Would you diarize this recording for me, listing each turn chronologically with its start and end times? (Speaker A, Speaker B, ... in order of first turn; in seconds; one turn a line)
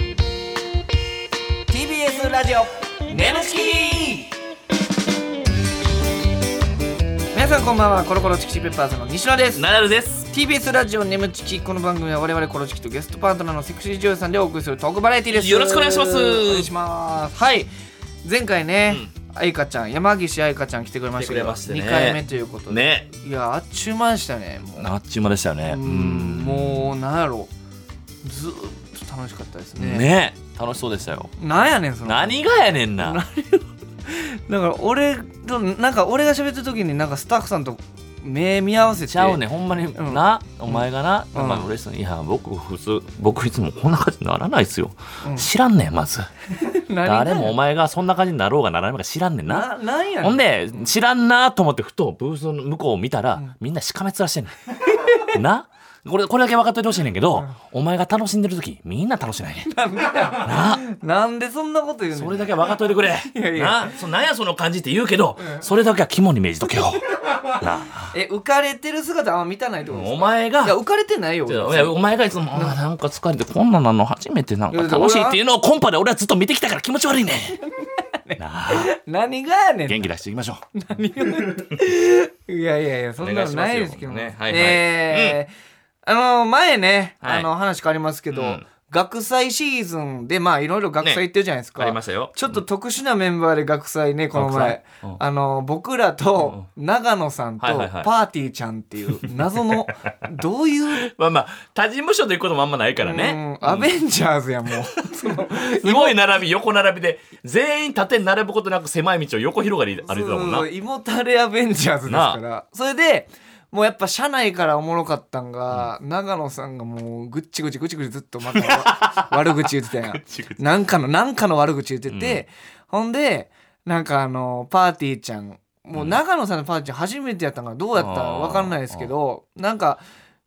Speaker A: 1.7-4.3
Speaker A: 7.3-9.6
Speaker B: 9.6-10.3
Speaker A: 10.3-17.7
Speaker B: 15.3-16.7
Speaker A: 18.2-24.9
Speaker B: 21.1-23.1
Speaker B: 24.8-26.9
Speaker A: 25.7-27.5
Speaker A: 28.2-30.1
Speaker B: 29.8-31.3
Speaker A: 31.4-32.4
Speaker B: 32.0-33.2
Speaker A: 33.0-39.4
Speaker B: 39.0-46.3
Speaker A: 39.9-41.7
Speaker A: 45.2-45.5
Speaker A: 46.6-47.5
Speaker B: 47.0-49.7
Speaker A: 49.5-50.8
Speaker B: 50.2-59.7
Speaker A: 55.0-55.3
Speaker A: 59.7-62.5
Speaker B: 60.4-60.8
Speaker B: 62.1-68.1
Speaker A: 63.2-64.0
Speaker A: 68.1-72.0
Speaker B: 69.9-70.8
Speaker B: 71.5-77.6
Speaker A: 72.5-72.8
Speaker A: 74.7-75.4
Speaker A: 78.2-80.0
Speaker B: 78.4-78.9
Speaker B: 79.8-80.7
Speaker A: 80.7-85.5
Speaker B: 83.2-85.4
Speaker A: 86.0-101.1
Speaker B: 87.2-87.5
Speaker B: 88.3-88.6
Speaker B: 91.8-92.6
Speaker B: 94.3-95.2
Speaker B: 96.4-96.7
Speaker B: 97.6-98.1
Speaker B: 99.2-100.1
Speaker B: 101.0-103.9
Speaker A: 103.0-106.2
Speaker B: 105.0-110.7
Speaker A: 110.1-130.0
Speaker B: 112.1-112.4
Speaker B: 118.5-120.6
Speaker B: 122.1-122.4
Speaker B: 128.0-129.1